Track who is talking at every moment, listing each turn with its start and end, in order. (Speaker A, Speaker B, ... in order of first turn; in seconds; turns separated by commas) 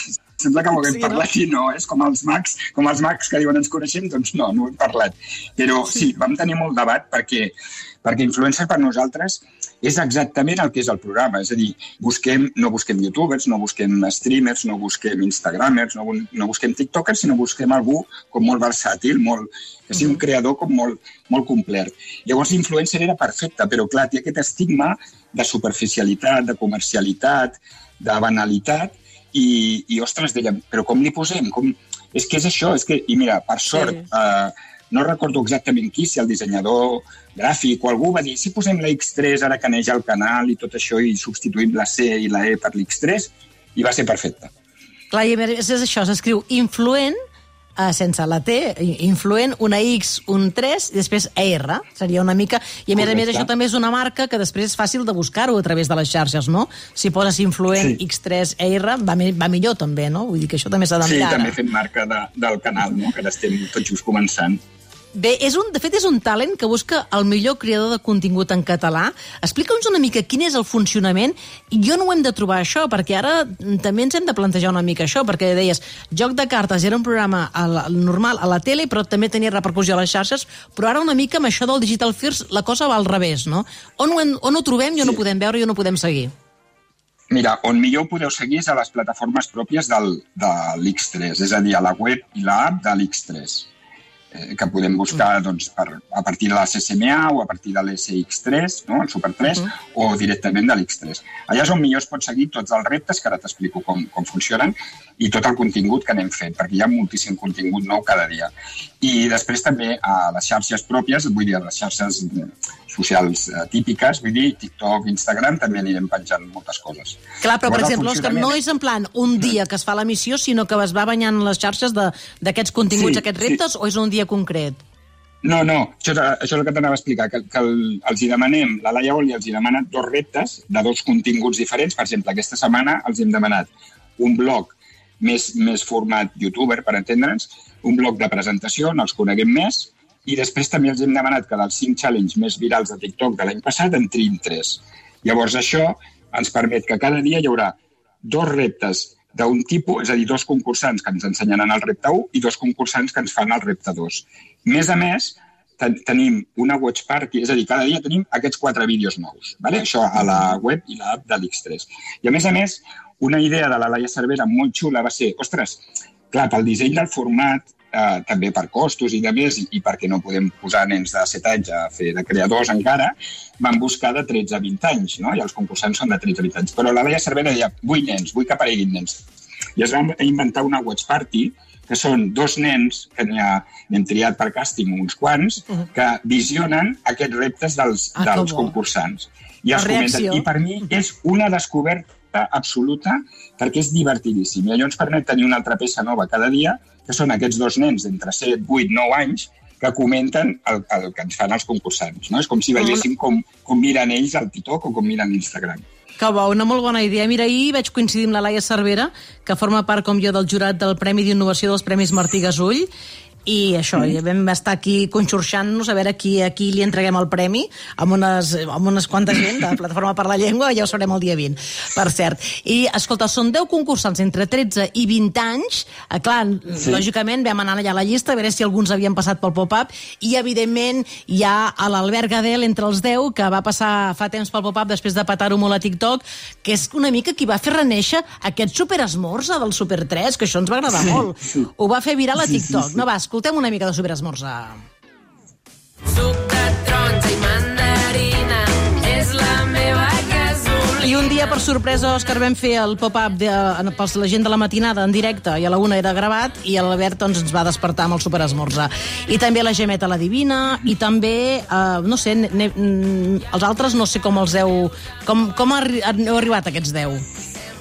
Speaker A: 0.4-44.5, Speaker B: 0.8-1.2, Speaker B: 45.1-47.1, Speaker B: 47.8-61.6, Speaker A: 53.0-53.5, Speaker A: 57.8-58.0, Speaker A: 61.0-64.6, Speaker B: 65.2-86.3, Speaker A: 87.3-93.7, Speaker A: 94.3-118.6, Speaker B: 117.4-124.8, Speaker A: 122.9-123.6, Speaker A: 125.4-179.2, Speaker A: 179.8-205.8, Speaker B: 188.2-188.8, Speaker B: 189.7-190.5, Speaker B: 202.8-203.0, Speaker B: 206.2-212.9, Speaker B: 213.5-244.8, Speaker A: 226.8-227.1, Speaker A: 240.9-241.2, Speaker A: 242.4-243.0, Speaker C: 246.1-251.0, Speaker B: 251.0-267.2